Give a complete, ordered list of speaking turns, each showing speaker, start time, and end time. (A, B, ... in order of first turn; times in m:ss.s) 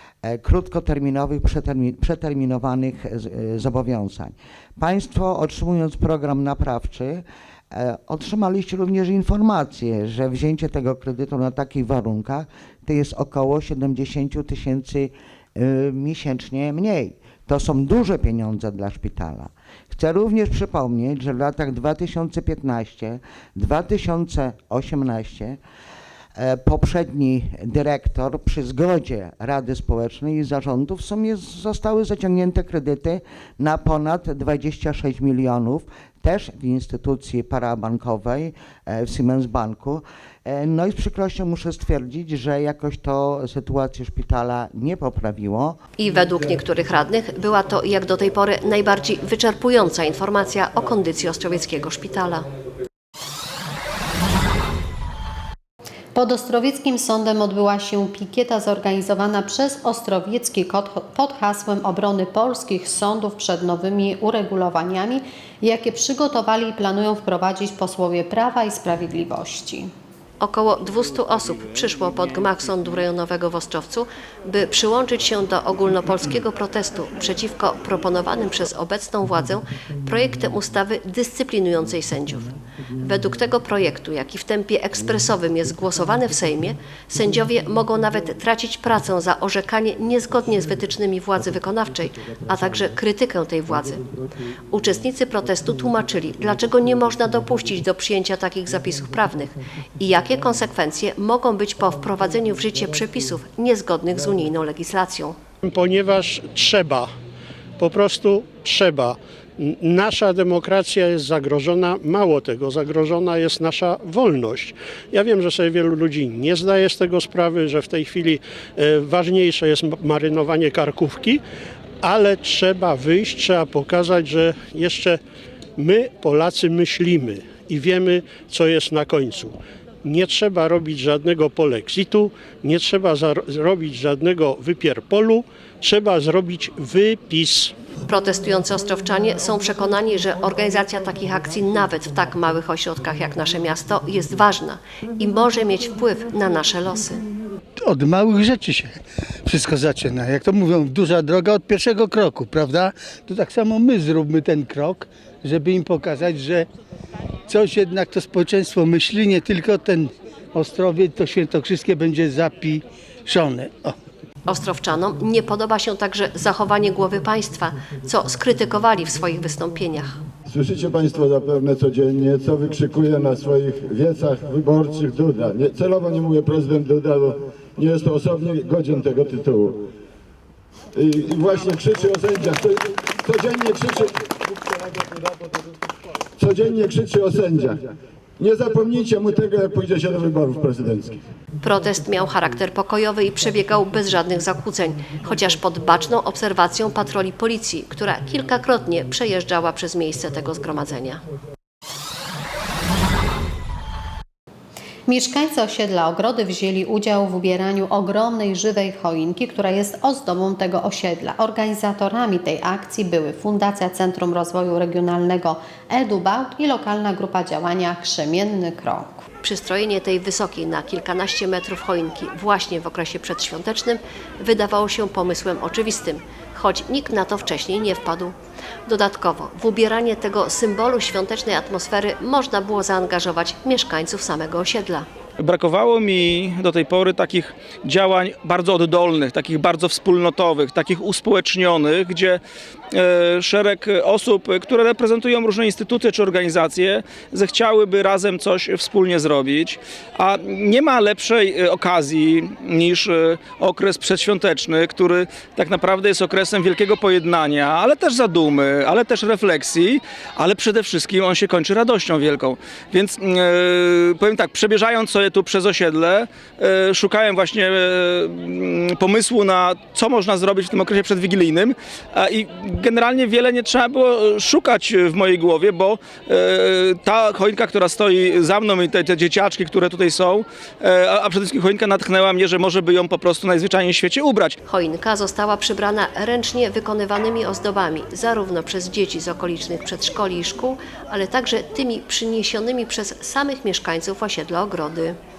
0:00.2-0:25.6 A
0:26.4-0:45.8 A
0:46.0-0:52.5 B
0:56.2-1:09.9 C
1:10.4-1:34.1 B
1:34.7-1:45.4 B
1:45.6-1:47.1 D
1:47.8-2:01.4 D
2:02.0-2:05.2 D
2:05.8-2:17.8 D
2:18.1-2:27.2 B
2:27.8-2:36.7 E
2:37.5-2:44.0 E
2:44.5-2:50.2 B
2:50.5-2:59.9 F
3:00.9-3:04.2 F
3:06.4-3:07.8 F
3:08.4-3:11.2 F
3:11.6-3:21.2 B
3:25.1-3:39.2 C
3:39.4-3:48.4 B
3:48.9-3:55.1 B
3:55.4-4:02.4 G
4:02.9-4:44.6 G
4:44.6-4:55.2 B